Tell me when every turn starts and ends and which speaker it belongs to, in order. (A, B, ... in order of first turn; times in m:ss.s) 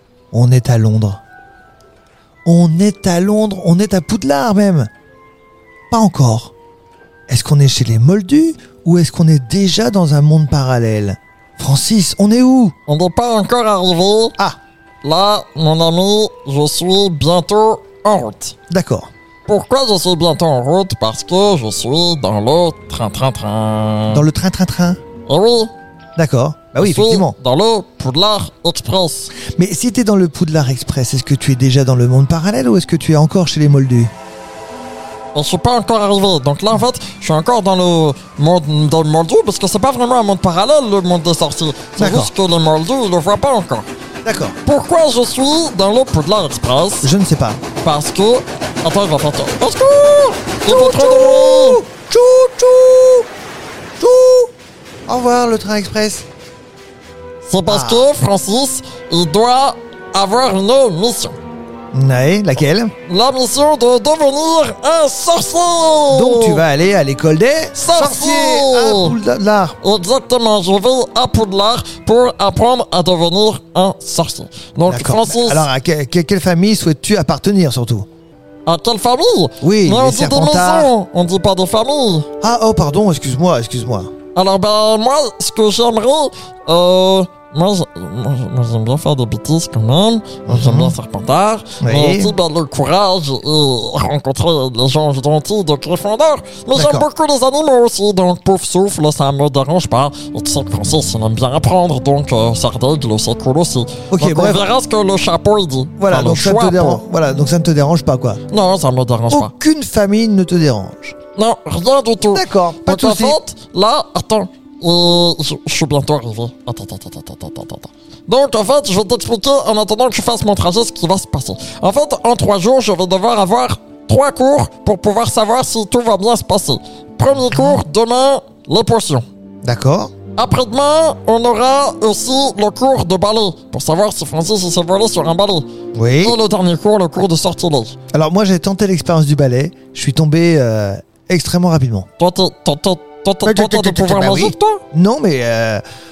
0:00.3-0:01.2 A
0:02.5-0:04.9 A
0:05.9-0:06.5 A
0:07.3-0:12.7 A
0:12.9-0:14.4 B
0:15.0-0:18.6 B
0:18.7-0:19.1 A
0:19.5-0:24.2 B
0:24.1-0:25.0 A
0:25.3-0:25.7 B
0:26.2-0:27.4 A
0:26.8-0:29.3 B
0:29.4-0:34.1 A
0:35.3-0:43.9 B
0:42.0-0:42.3 A
0:44.2-0:44.6 A
0:44.6-0:47.1 B
0:47.0-0:47.6 A
0:47.8-0:51.8 B
0:50.7-0:53.3 A
0:54.0-0:54.5 A
0:55.1-0:56.3 A
0:57.4-1:01.4 B
0:57.7-0:58.1 A
1:01.9-1:02.9 A
1:03.1-1:06.6 B
1:06.1-1:09.8 A
1:07.8-1:09.2 B
1:09.8-1:15.7 B
1:14.9-1:18.1 A
1:18.7-1:22.3 B
1:19.6-1:20.9 A
1:22.4-1:24.1 A
1:24.4-1:47.0 B
1:30.5-1:31.0 A
1:31.8-1:32.3 A
1:36.7-1:37.1 A
1:44.1-1:44.7 A
1:46.0-1:48.4 A
1:48.5-1:49.5 B
1:49.3-1:51.1 A
1:51.4-2:09.2 B
1:52.3-1:53.4 A
2:09.6-2:10.1 A
2:10.4-2:15.7 B
2:16.0-2:16.4 A
2:16.2-2:18.0 B
2:18.1-2:22.1 A
2:22.2-2:24.8 B
2:23.4-2:25.8 A